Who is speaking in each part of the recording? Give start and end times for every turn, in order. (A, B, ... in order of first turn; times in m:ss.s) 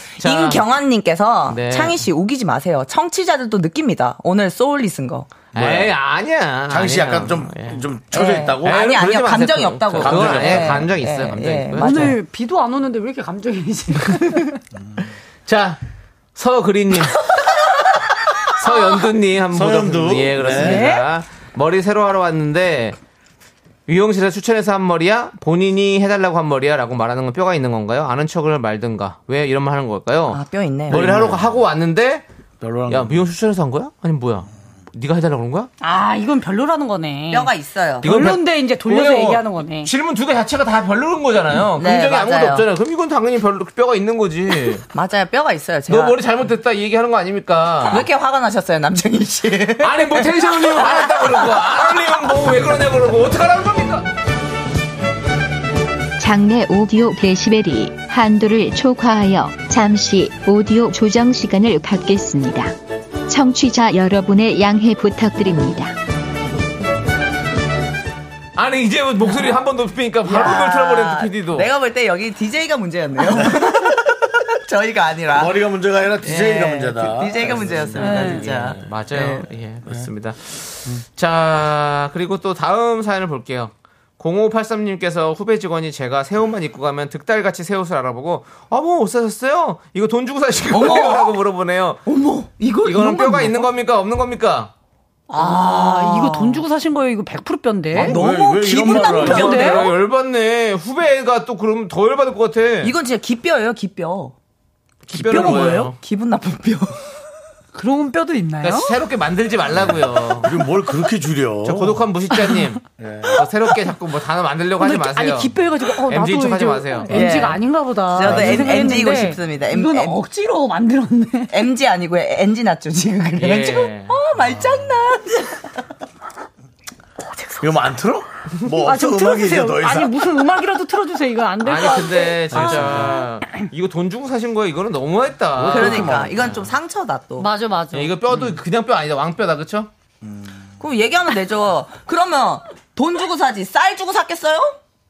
0:00.2-0:05.5 A
0:00.2-0:00.6 B
0:01.5-0:02.0 B
0:05.5-0:07.8 B
0:05.5-0:05.9 C
0:06.7-0:08.8 C
0:08.1-0:12.2 A
0:08.6-0:12.1 B
0:10.0-0:10.9 C
0:11.8-0:14.6 D
0:15.0-0:15.8 B
0:16.4-0:17.3 B
0:18.5-0:23.0 B
0:19.5-0:20.9 C
0:20.5-0:21.1 D
0:23.9-0:32.2 B
0:30.3-0:31.0 A
0:30.9-0:31.6 C
0:32.6-0:33.2 C
0:32.9-0:35.7 B
0:35.8-0:39.9 D
0:37.3-0:38.1 A
0:38.0-0:44.8 B
0:41.8-0:42.6 A
0:44.9-0:46.2 A
0:45.9-0:48.1 B
0:47.9-0:51.5 A
0:49.8-0:54.1 B
0:56.2-1:02.8 E
1:03.3-1:06.0 E
1:08.6-1:11.7 B
1:10.2-1:15.6 A
1:13.3-1:13.7 C
1:15.3-1:19.2 C
1:16.2-1:19.5 A
1:18.0-1:18.5 D
1:18.0-1:32.0 B
1:30.7-1:31.4 A
1:32.0-1:33.7 A
1:32.8-1:34.7 B
1:35.3-1:38.2 D
1:35.4-1:36.6 A
1:37.9-1:39.9 C
1:38.0-1:39.9 A
1:38.8-1:39.9 D
1:39.3-1:43.0 B
1:42.8-1:44.4 A
1:45.1-1:46.0 B
1:45.1-1:47.0 A
1:45.3-1:45.8 C
1:47.7-1:49.0 D
1:48.6-1:50.5 B
1:49.7-1:52.1 C
1:51.6-1:55.5 B
1:53.0-1:53.4 C
1:54.8-2:01.6 D
1:56.1-1:57.3 B
1:57.1-2:00.2 A
1:58.2-1:59.0 C
2:01.5-2:05.6 A
2:03.4-2:04.2 B
2:07.4-2:07.6 D
2:07.6-2:10.3 C
2:08.7-2:13.3 D
2:11.6-2:16.7 B
2:12.5-2:13.2 C
2:15.6-2:16.5 C
2:15.7-2:17.5 A
2:17.4-2:18.1 D
2:17.9-2:19.9 B
2:18.3-2:18.6 C
2:20.2-2:20.7 C
2:20.8-2:24.8 A